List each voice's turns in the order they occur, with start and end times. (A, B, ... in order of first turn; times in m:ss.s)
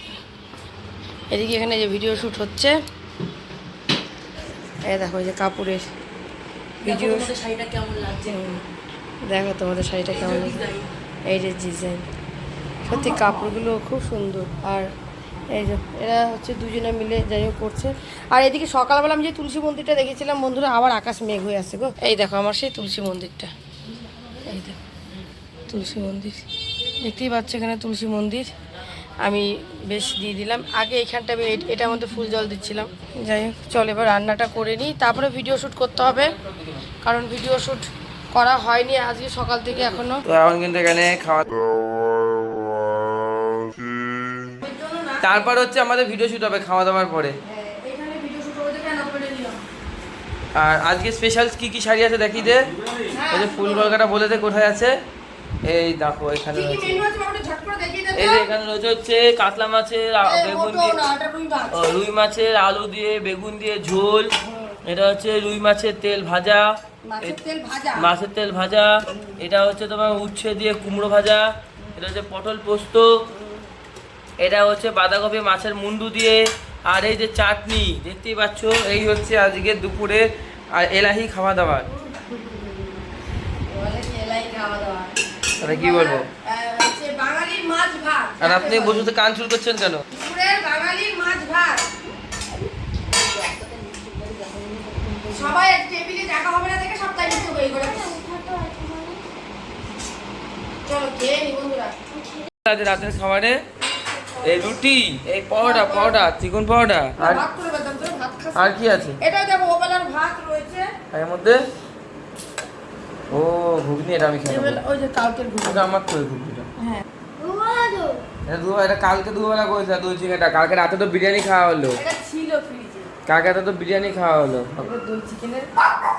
0:01.3-0:02.8 A
0:04.9-0:05.9 A
0:06.8-0:07.3 A
0:06.8-0:08.3 B
0:08.2-0:08.6 A
0:09.2-0:10.7 A
0:10.2-0:10.9 B
0:11.3-0:12.0 A
0:12.9-0:14.9 A
0:15.5-0:23.5 A
0:24.4-0:24.8 A
0:25.7-0:26.5 A
0:27.0-0:28.5 A
0:29.2-0:36.4 A
0:36.1-0:36.8 C
0:37.0-0:40.2 A
0:40.2-0:41.6 C
0:44.6-0:45.7 A
0:45.2-0:47.4 C
0:47.4-0:49.6 A
0:50.6-0:55.0 C
0:53.0-0:54.0 A
0:55.6-0:57.1 C
0:56.5-0:58.4 A
0:58.1-1:01.0 C
1:00.2-1:01.9 A
1:01.7-1:04.3 C
1:04.4-1:04.8 A
1:04.8-1:07.4 C
1:07.0-1:08.1 A
1:08.0-1:13.1 C
1:09.1-1:09.4 A
1:13.3-1:13.7 A
1:14.4-1:21.9 C
1:21.9-1:23.0 A
1:23.7-1:29.1 A
1:25.6-1:26.3 C
1:28.4-1:30.0 C
1:30.1-1:31.8 A
1:33.3-1:35.5 B
1:35.3-1:39.2 A
1:40.8-1:42.2 A
1:42.6-1:43.6 C
1:43.8-1:44.8 A
1:44.4-1:47.4 C
1:45.6-1:46.3 A
1:47.2-1:50.9 A
1:48.5-1:49.2 C
1:51.1-1:51.6 C
1:53.3-1:54.8 C
1:54.4-1:55.9 A
1:55.6-1:56.7 C
1:56.8-1:58.2 A
1:58.5-2:02.0 C
2:02.0-2:03.1 A
2:03.2-2:04.8 C
2:04.8-2:05.7 A